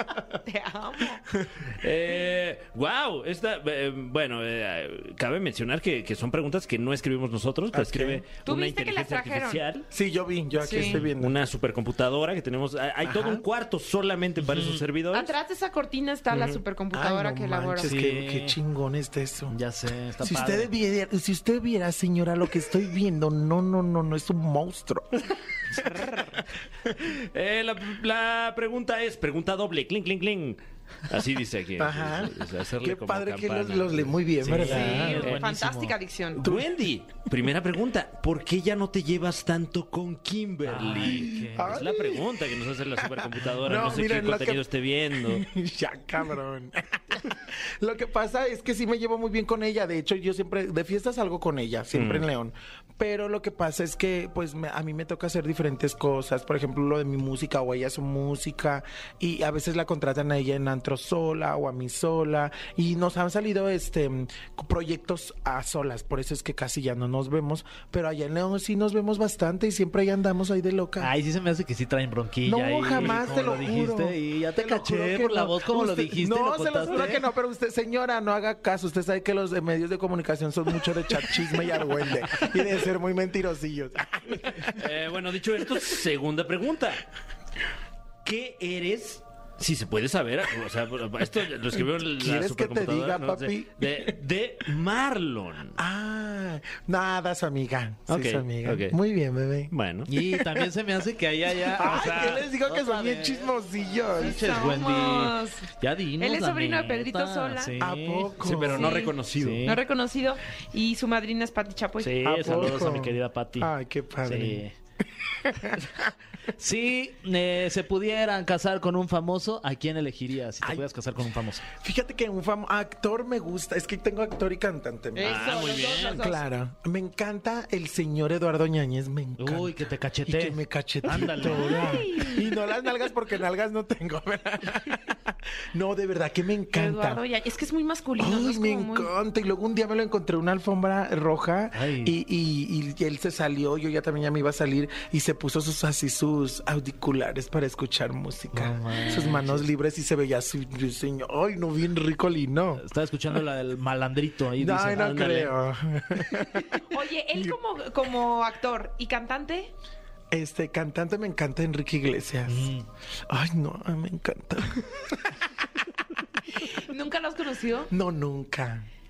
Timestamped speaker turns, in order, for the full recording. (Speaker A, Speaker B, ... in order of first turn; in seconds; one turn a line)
Speaker A: 0.4-1.2
Speaker B: 1.3-1.7
Speaker C: 1.7-9.9
Speaker B: 7.7-8.2
Speaker A: 8.4-9.7
Speaker B: 9.9-11.4
Speaker A: 10.6-11.0
Speaker C: 10.8-15.3
Speaker B: 13.0-13.4
Speaker D: 14.4-14.8
Speaker A: 15.1-17.9
Speaker C: 16.3-16.6
Speaker B: 16.9-19.6
Speaker D: 17.8-18.6
Speaker D: 19.5-20.7
Speaker B: 20.2-25.8
Speaker A: 25.8-26.4
Speaker C: 27.0-34.6
Speaker B: 31.8-35.3
Speaker D: 34.4-36.0
Speaker A: 34.6-36.4
Speaker B: 36.4-36.8
Speaker C: 36.4-45.4
Speaker D: 40.7-41.8
Speaker B: 41.0-42.4
Speaker B: 43.0-71.1
Speaker C: 51.9-52.2
Speaker D: 71.0-77.2
Speaker B: 72.4-84.8
Speaker C: 84.8-87.0
Speaker C: 88.2-95.8
Speaker B: 92.0-94.1
Speaker B: 95.8-99.7
Speaker C: 98.1-99.0
Speaker C: 99.7-100.1
Speaker D: 100.1-103.5
Speaker B: 100.3-100.7
Speaker B: 101.6-104.5
Speaker A: 104.2-107.7
Speaker D: 104.2-108.4
Speaker B: 107.8-109.0
Speaker C: 108.4-109.6
Speaker A: 108.7-112.1
Speaker D: 109.3-109.8
Speaker C: 112.0-112.9
Speaker D: 112.2-113.7
Speaker B: 112.2-114.6
Speaker D: 114.2-114.7
Speaker B: 115.2-116.1
Speaker D: 116.6-121.6
Speaker B: 120.6-120.9
Speaker B: 121.7-129.7
Speaker A: 125.1-126.4
Speaker C: 125.2-126.2
Speaker D: 129.4-132.1
Speaker B: 130.2-137.2
Speaker A: 131.4-132.5
Speaker A: 136.7-139.1
Speaker B: 138.2-152.8
Speaker D: 141.7-142.1
Speaker D: 148.5-149.7
Speaker D: 152.8-155.5
Speaker B: 154.6-156.8
Speaker A: 156.8-159.7
Speaker B: 160.3-162.7
Speaker D: 162.5-162.8
Speaker B: 163.3-165.8
Speaker A: 166.5-167.9
Speaker B: 167.9-168.9